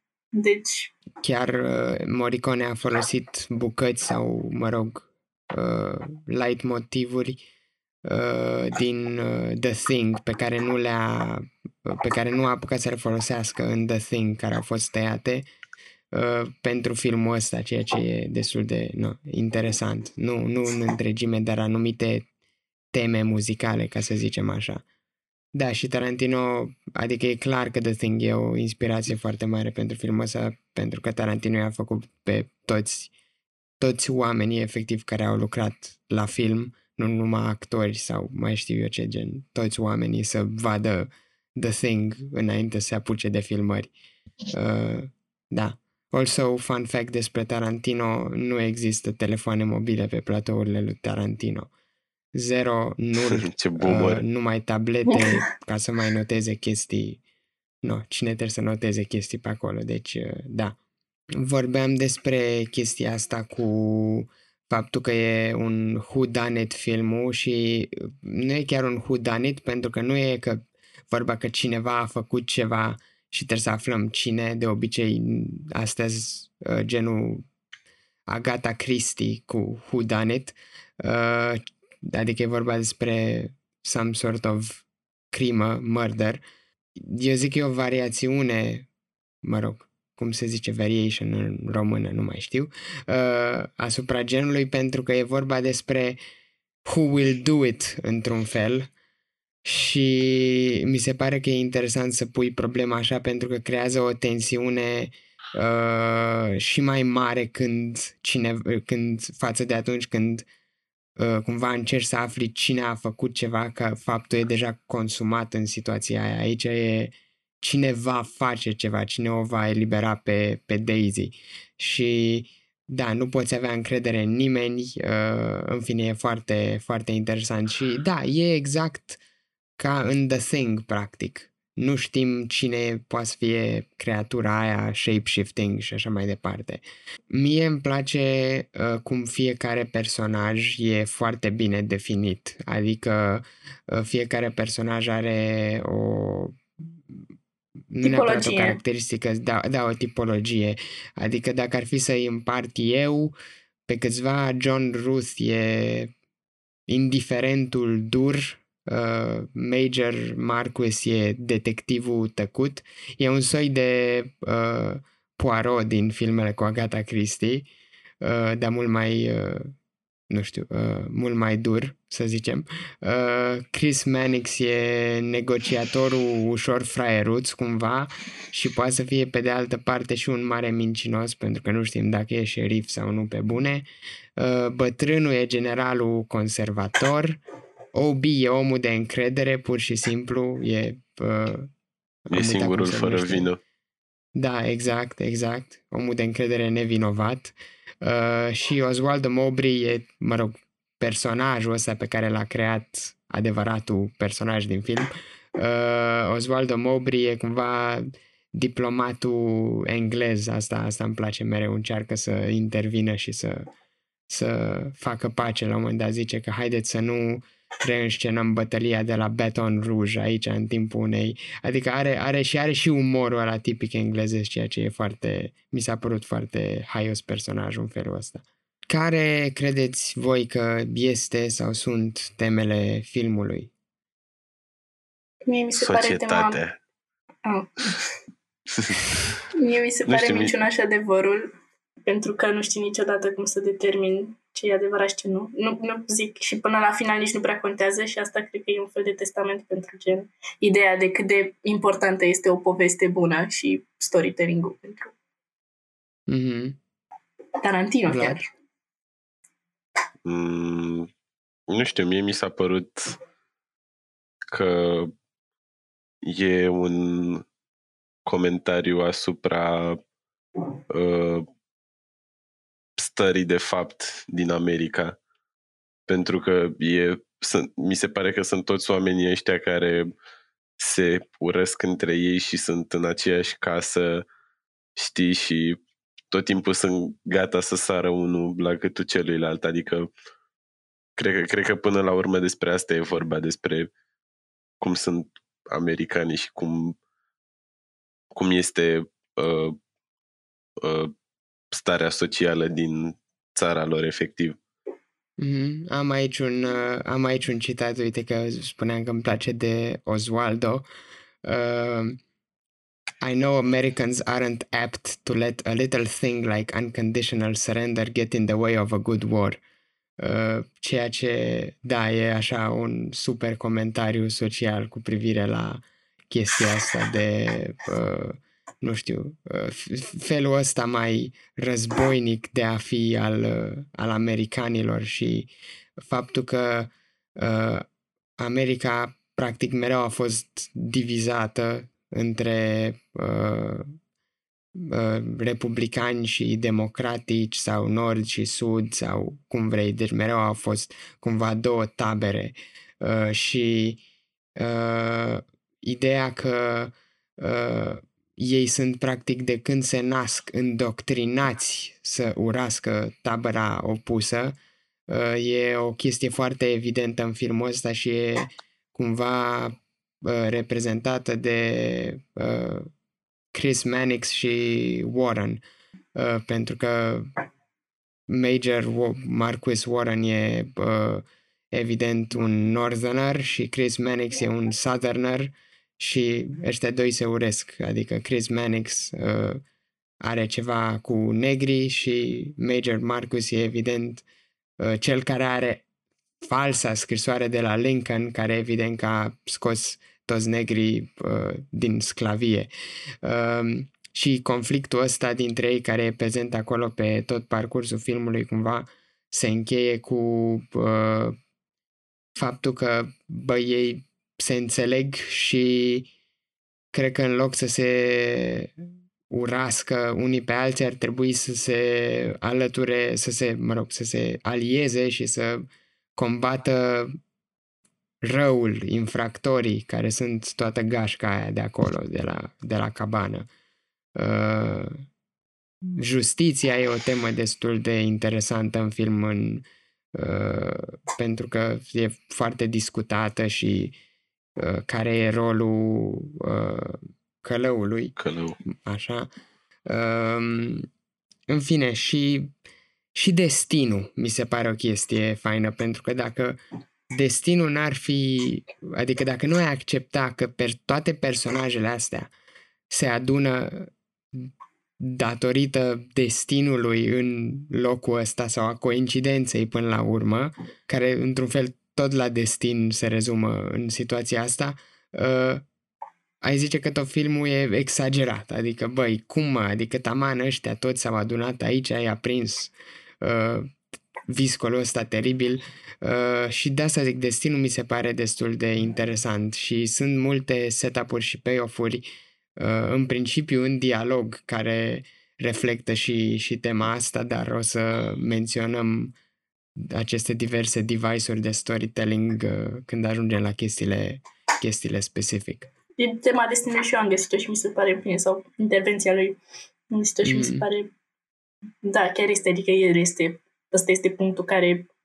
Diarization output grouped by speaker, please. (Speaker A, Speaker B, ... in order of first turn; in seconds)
Speaker A: 0.3-0.9, 148.0-148.8, 235.5-236.6, 237.4-238.0, 239.5-241.5, 242.0-255.1, 257.6-258.4, 506.0-509.4, 509.9-510.9, 511.8-514.9
Speaker B: 1.2-7.4, 8.1-15.5, 16.1-22.3, 22.9-24.8, 25.6-33.1, 33.8-43.9, 44.5-51.7, 52.3-57.2, 57.8-60.8, 61.4-77.4, 78.3-86.4, 87.0-88.9, 89.4-96.2, 96.9-98.9, 99.6-110.5, 111.2-129.2, 129.8-147.2, 147.9-153.3, 153.9-156.1, 156.9-167.7, 168.2-169.7, 170.3-187.4, 187.9-191.7, 192.3-193.5, 194.4-213.7, 214.3-233.7, 256.3-256.8, 258.1-258.4, 305.4-310.9, 311.4-312.2, 313.2-319.6, 320.2-337.9, 338.4-343.9, 344.8-354.0, 354.6-364.6, 365.1-372.9, 373.5-375.6, 376.1-377.3, 378.3-389.6, 390.2-394.2, 394.8-395.8, 396.4-402.7, 403.2-411.4, 412.4-416.1, 416.9-418.7, 419.3-427.1, 428.2-433.5, 434.2-435.1, 435.9-444.0, 444.6-448.2, 448.7-449.3, 449.9-450.9, 451.5-452.5, 453.1-456.6, 457.1-462.3, 462.9-475.6, 476.4-483.7, 484.3-492.1, 492.6-499.1, 499.8-505.7, 510.2-510.6
Speaker C: 53.3-54.2, 192.3-193.6, 235.7-236.8, 238.7-239.2, 240.1-240.5, 260.2-261.1, 261.7-263.2, 264.5-265.1, 266.2-267.4, 268.2-270.0, 270.9-271.5, 273.0-275.2, 276.1-280.1, 280.8-284.3, 285.0-290.1, 291.2-293.9, 294.8-297.0, 298.3-299.8, 300.8-301.1, 301.7-304.6, 448.2-448.6